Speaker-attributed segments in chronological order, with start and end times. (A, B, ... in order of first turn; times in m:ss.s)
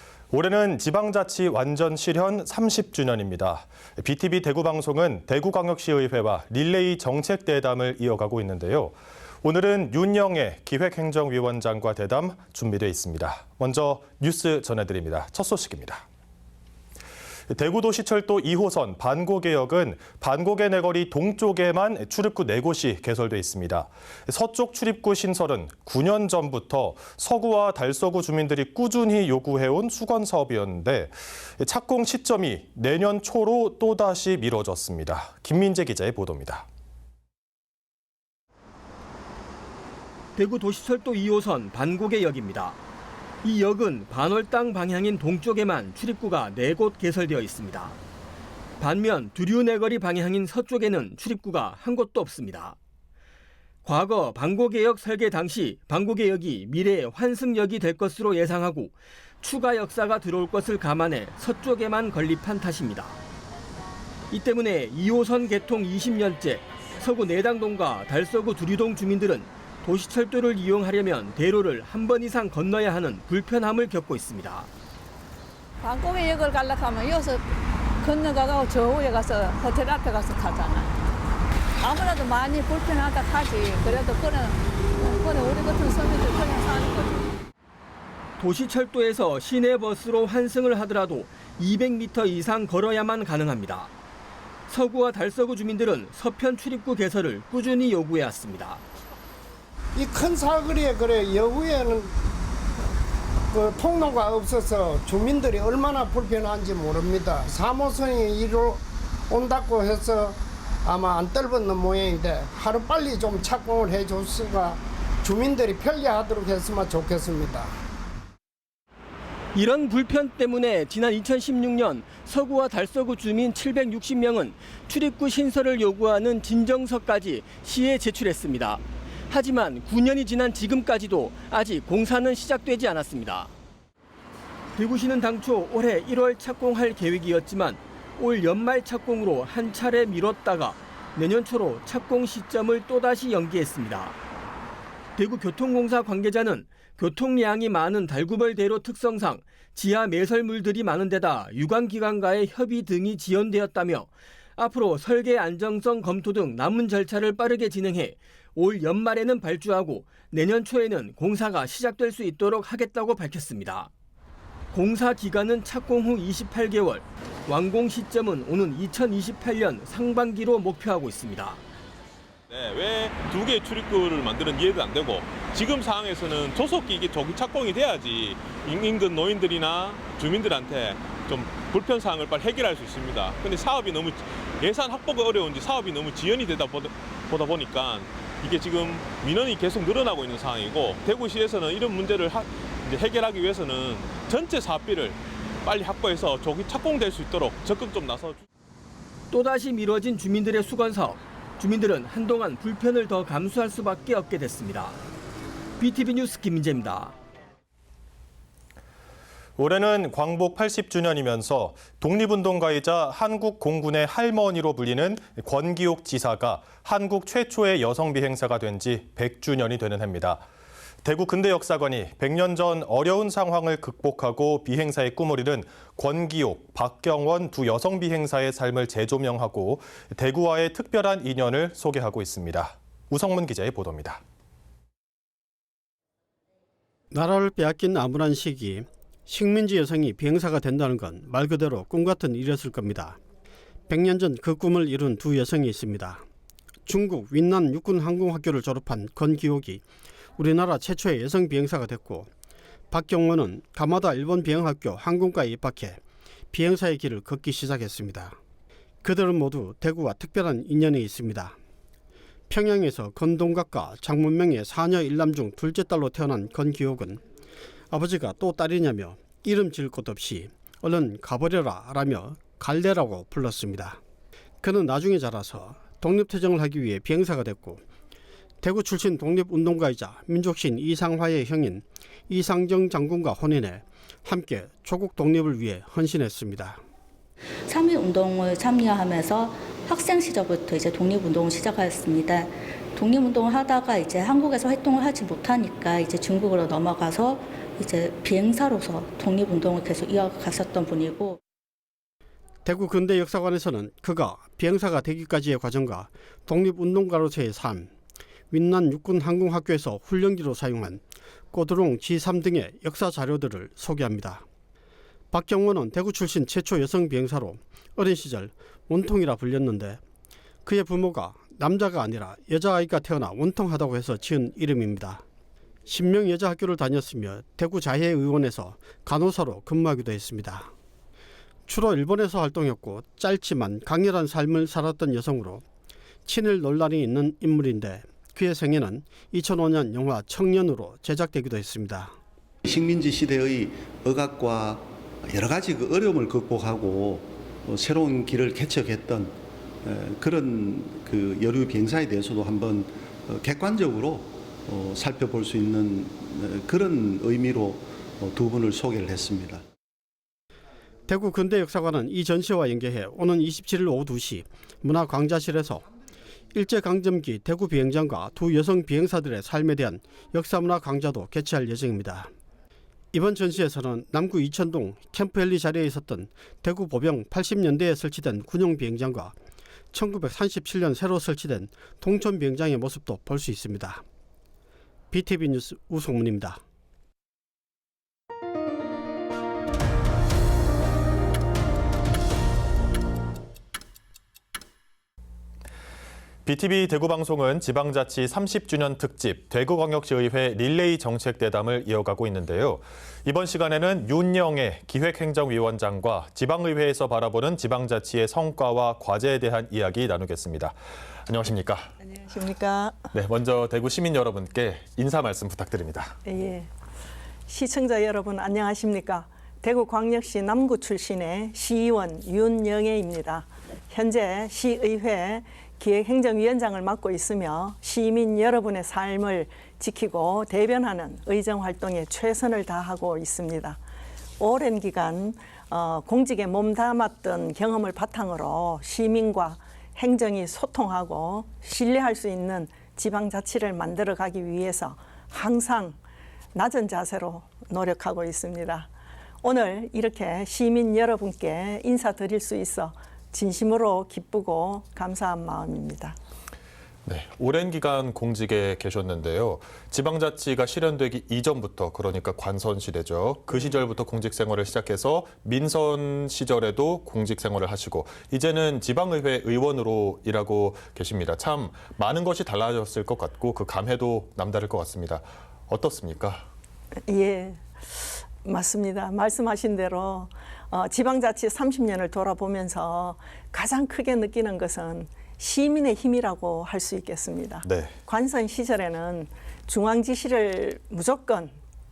0:00.3-0:16.0 A
0:17.5-0:36.7 A
0:40.4-0:42.8 B
0:43.4-0:48.0 B
0:48.8-0:52.8 B
0:53.8-1:03.2 B
1:04.3-1:14.7 B
1:15.8-1:21.0 C
1:21.8-1:27.4 C
1:28.4-1:33.9 B
1:34.7-1:38.8 B
1:40.0-1:42.2 D
1:43.5-1:57.7 D
1:59.5-2:13.5 B
2:14.8-2:24.2 B
2:25.2-2:43.9 B
2:44.7-2:51.6 B
2:52.5-3:18.4 E
3:19.3-3:25.0 B
3:25.8-3:27.1 B
3:29.6-3:40.4 A
3:41.0-3:54.2 A
3:57.1-4:03.2 F
4:03.9-4:06.2 F
4:06.9-4:09.8 F
4:10.4-4:12.3 F
4:12.9-4:16.0 F
4:16.5-4:18.4 F
4:19.0-4:21.6 F
4:22.5-4:27.2 F
4:27.9-4:34.0 F
4:34.6-4:37.8 F
4:38.6-4:46.8 F
4:47.7-5:01.4 G
5:02.6-5:07.9 F
5:08.5-5:14.4 F
5:15.3-5:20.0 F
5:20.6-5:25.2 F
5:25.9-5:30.7 F
5:31.7-5:35.6 F
5:36.3-5:42.2 F
5:42.7-5:59.6 H
6:01.1-6:05.8 F
6:06.5-6:12.3 F
6:13.1-6:19.4 F
6:19.9-6:24.0 F
6:25.1-6:26.6 F
6:36.4-6:51.9 I
6:52.0-6:53.1 J
6:53.1-6:56.2 I
6:56.2-6:56.7 J
6:57.5-7:13.8 J
7:14.4-7:26.0 J
7:26.5-7:28.9 J
7:29.4-7:36.2 J
7:37.1-7:56.5 I
7:57.1-8:11.6 J
8:07.6-8:08.0 I